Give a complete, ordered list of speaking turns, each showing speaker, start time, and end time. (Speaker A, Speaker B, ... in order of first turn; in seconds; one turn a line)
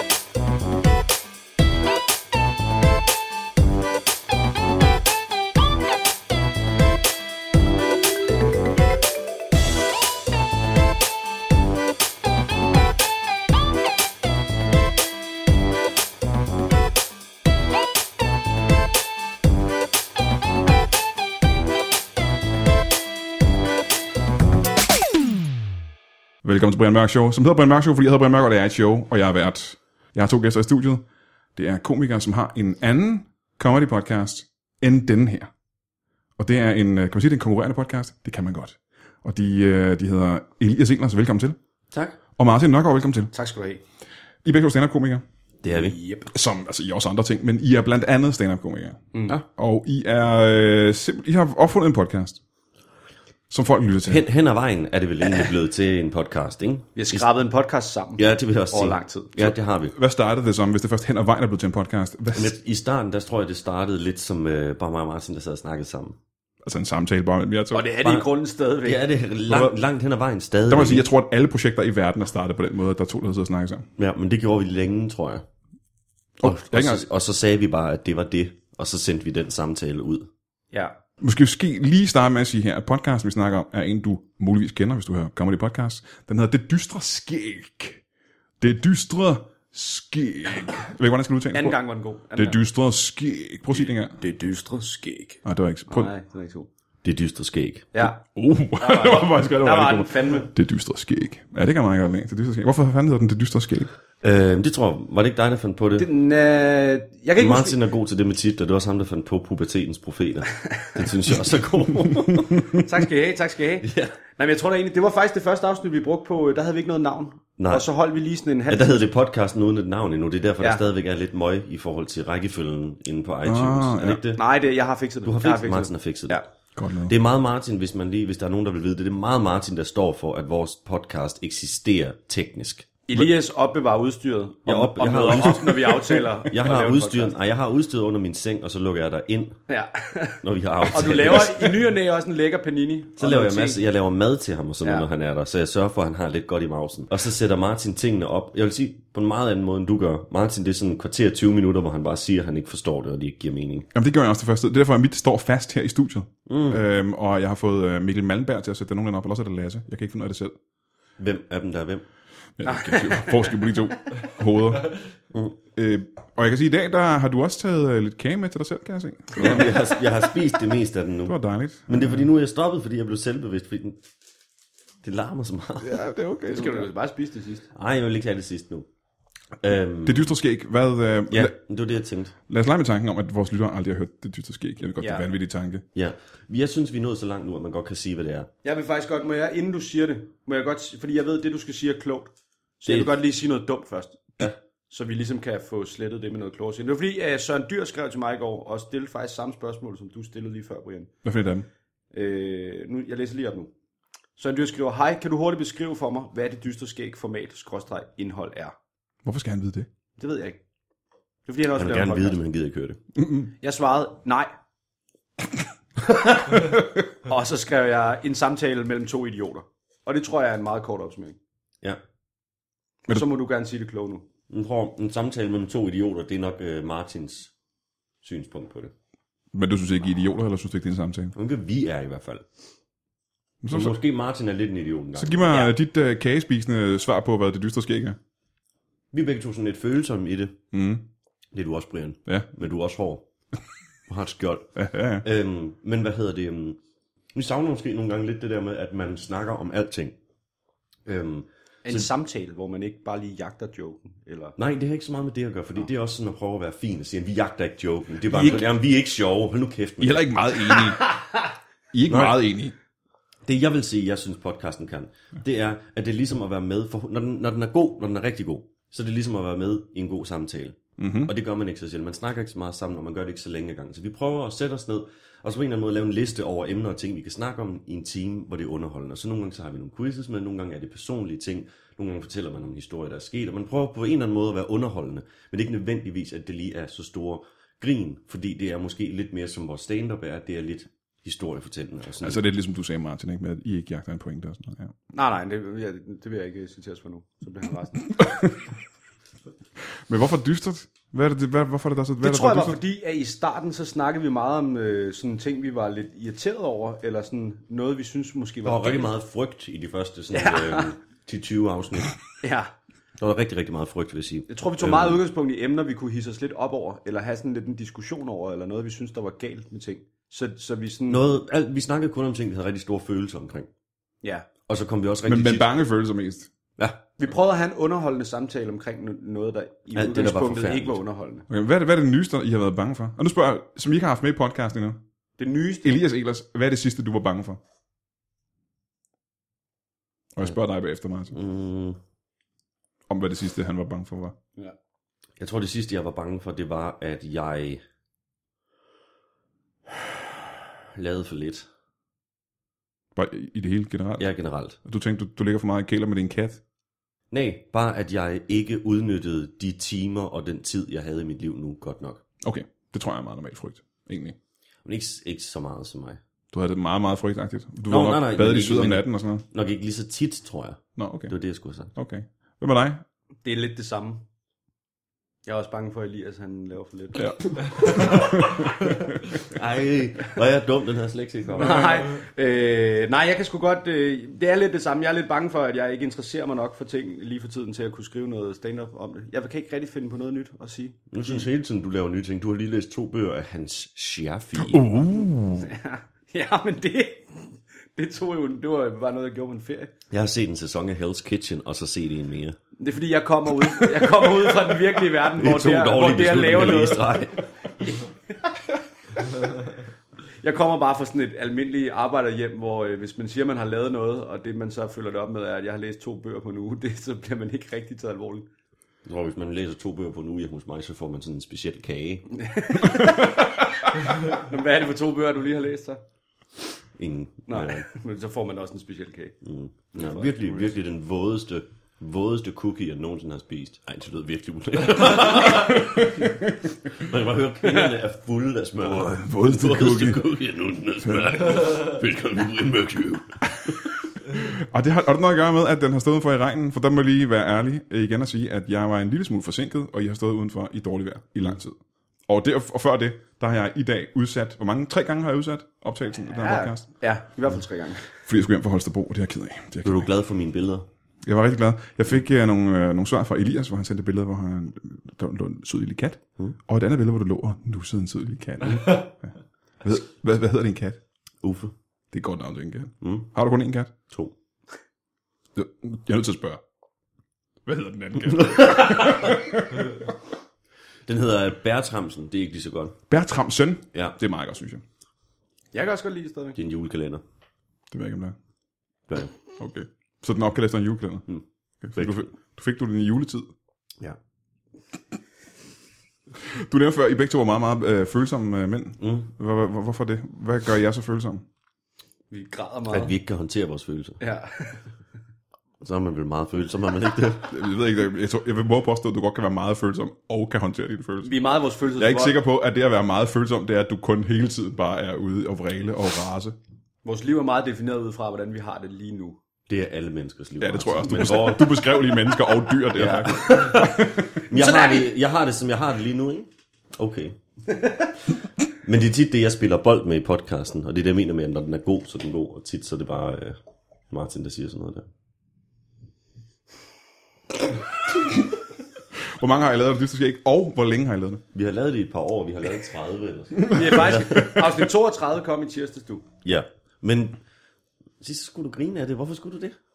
Speaker A: 26.4-35.5
Speaker A: 36.4-41.6
Speaker B: 41.9-42.2
Speaker A: 42.4-43.3
Speaker C: 43.3-43.8
Speaker A: 44.4-45.2
Speaker B: 45.6-46.0
Speaker C: 45.7-46.3
Speaker A: 46.3-52.4
Speaker C: 49.1-49.4
Speaker A: 53.5-54.2
Speaker B: 54.0-57.2
Speaker C: 57.0-59.5
Speaker B: 58.2-59.9
Speaker A: 59.9-62.6
Speaker B: 62.3-66.2
Speaker A: 66.6-67.9
Speaker C: 67.7-69.0
Speaker B: 68.0-68.3
Speaker B: 68.8-71.0
Speaker A: 69.5-69.8
Speaker A: 70.7-73.9
Speaker B: 74.0-75.4
Speaker A: 76.4-77.0
Speaker B: 76.4-80.3
Speaker A: 81.2-88.0
Speaker A: 88.6-91.8
Speaker C: 91.5-92.6
Speaker A: 92.3-94.2
Speaker C: 93.8-96.7
Speaker A: 95.4-96.1
Speaker B: 97.0-97.9
Speaker C: 97.9-98.2
Speaker A: 98.3-103.9
Speaker C: 98.8-100.5
Speaker B: 104.2-106.1
Speaker C: 106.0-107.8
Speaker B: 107.4-112.6
Speaker C: 112.7-119.0
Speaker B: 113.8-114.2
Speaker B: 117.6-117.8
Speaker B: 118.7-124.4
Speaker A: 123.5-124.2
Speaker C: 124.3-126.5
Speaker B: 125.2-126.4
Speaker A: 126.8-127.1
Speaker B: 127.1-132.9
Speaker C: 133.1-137.3
Speaker B: 134.7-139.6
Speaker C: 139.7-143.8
Speaker B: 140.4-141.6
Speaker B: 143.2-153.9
Speaker C: 144.8-145.1
Speaker A: 153.9-160.6
Speaker B: 156.4-156.8
Speaker B: 161.2-162.1
Speaker A: 162.6-165.0
Speaker C: 162.7-163.5
Speaker B: 165.3-165.6
Speaker A: 165.8-169.8
Speaker B: 169.3-174.0
Speaker A: 171.2-172.3
Speaker B: 175.0-175.9
Speaker A: 175.8-176.9
Speaker C: 176.5-177.7
Speaker B: 177.7-178.9
Speaker B: 179.6-180.3
Speaker A: 180.0-181.5
Speaker B: 181.3-182.3
Speaker A: 182.5-185.8
Speaker C: 185.0-185.2
Speaker B: 185.9-188.5
Speaker C: 188.6-201.1
Speaker B: 192.8-193.1
Speaker A: 201.2-201.7
Speaker C: 202.1-203.7
Speaker C: 204.4-208.7
Speaker A: 209.2-209.9
Speaker C: 210.2-210.6
Speaker C: 211.5-212.3
Speaker B: 211.7-213.0
Speaker A: 213.2-213.5
Speaker C: 213.6-214.5
Speaker C: 217.2-221.4
Speaker C: 223.1-224.2
Speaker B: 224.5-227.5
Speaker B: 228.2-228.9
Speaker A: 229.5-231.3
Speaker B: 231.3-232.5
Speaker A: 233.6-233.9
Speaker B: 233.7-235.6
Speaker A: 235.1-238.2
Speaker B: 239.1-240.6
Speaker A: 240.7-241.0
Speaker B: 241.5-243.3
Speaker B: 244.1-246.8
Speaker A: 244.8-245.2
Speaker B: 247.3-250.2
Speaker B: 251.1-252.1
Speaker C: 251.8-254.6
Speaker B: 254.6-260.4
Speaker C: 258.3-258.6
Speaker A: 260.0-261.0
Speaker A: 261.9-262.7
Speaker B: 262.1-262.4
Speaker B: 263.4-292.4
Speaker A: 271.0-271.3
Speaker A: 292.2-295.0
Speaker C: 295.1-298.2
Speaker A: 300.1-302.8
Speaker C: 302.2-309.1
Speaker B: 308.6-312.1
Speaker C: 310.3-310.9
Speaker C: 312.4-312.7
Speaker B: 313.2-315.2
Speaker C: 314.5-321.2
Speaker B: 321.1-323.7
Speaker C: 324.2-324.5
Speaker B: 324.7-325.7
Speaker A: 325.2-326.5
Speaker B: 326.8-327.1
Speaker C: 327.2-331.4
Speaker B: 329.9-331.0
Speaker A: 331.5-335.0
Speaker C: 335.4-336.0
Speaker A: 335.8-337.6
Speaker A: 340.3-341.4
Speaker B: 341.3-342.0
Speaker A: 343.1-344.3
Speaker B: 345.4-347.8
Speaker B: 350.9-351.7
Speaker A: 353.1-354.3
Speaker B: 354.2-354.8
Speaker A: 354.8-356.6
Speaker B: 357.3-362.2
Speaker A: 362.4-364.4
Speaker B: 364.8-366.2
Speaker A: 366.5-369.4
Speaker B: 367.9-371.9
Speaker A: 371.0-371.3
Speaker A: 371.9-373.0
Speaker C: 373.4-374.2
Speaker C: 375.4-378.4
Speaker A: 377.1-379.0
Speaker B: 379.4-382.2
Speaker C: 381.5-391.4
Speaker B: 391.1-394.9
Speaker A: 394.6-395.7
Speaker C: 395.6-399.9
Speaker B: 400.1-402.6
Speaker C: 402.8-407.3
Speaker B: 404.5-407.4
Speaker C: 407.8-408.5
Speaker C: 410.4-418.5
Speaker B: 419.0-422.3
Speaker C: 422.4-426.0
Speaker B: 426.9-427.8
Speaker C: 427.5-429.4
Speaker B: 429.4-443.4
Speaker C: 429.9-430.7
Speaker A: 438.8-440.2
Speaker A: 443.6-456.9
Speaker C: 456.3-458.2
Speaker A: 458.2-460.1
Speaker B: 459.8-460.9
Speaker A: 461.2-469.3
Speaker A: 469.8-471.0
Speaker B: 471.4-471.7
Speaker A: 472.1-473.9
Speaker B: 473.0-473.3
Speaker B: 474.1-474.3
Speaker A: 475.5-476.6
Speaker A: 477.6-479.9
Speaker B: 478.5-479.4
Speaker B: 481.1-483.0
Speaker A: 483.1-484.8
Speaker C: 485.7-486.6
Speaker B: 486.6-487.2
Speaker A: 487.9-488.3
Speaker A: 489.6-491.3
Speaker A: 491.8-493.5
Speaker B: 492.0-492.2
Speaker A: 496.5-501.4
Speaker B: 499.0-499.3
Speaker C: 502.3-503.1
Speaker B: 502.9-504.2
Speaker C: 504.2-504.9
Speaker B: 505.8-507.5
Speaker A: 507.5-511.3
Speaker C: 511.2-512.4
Speaker A: 512.0-516.5
Speaker C: 517.0-519.4
Speaker B: 519.7-521.8
Speaker A: 520.6-524.3
Speaker B: 522.9-523.9
Speaker C: 523.5-523.9
Speaker C: 524.5-525.1
Speaker B: 524.5-527.4
Speaker B: 528.8-533.6
Speaker B: 534.1-535.1
Speaker A: 539.4-541.4
Speaker B: 541.5-544.5
Speaker A: 543.6-544.6
Speaker C: 543.7-546.2
Speaker B: 546.4-547.4
Speaker B: 548.2-549.8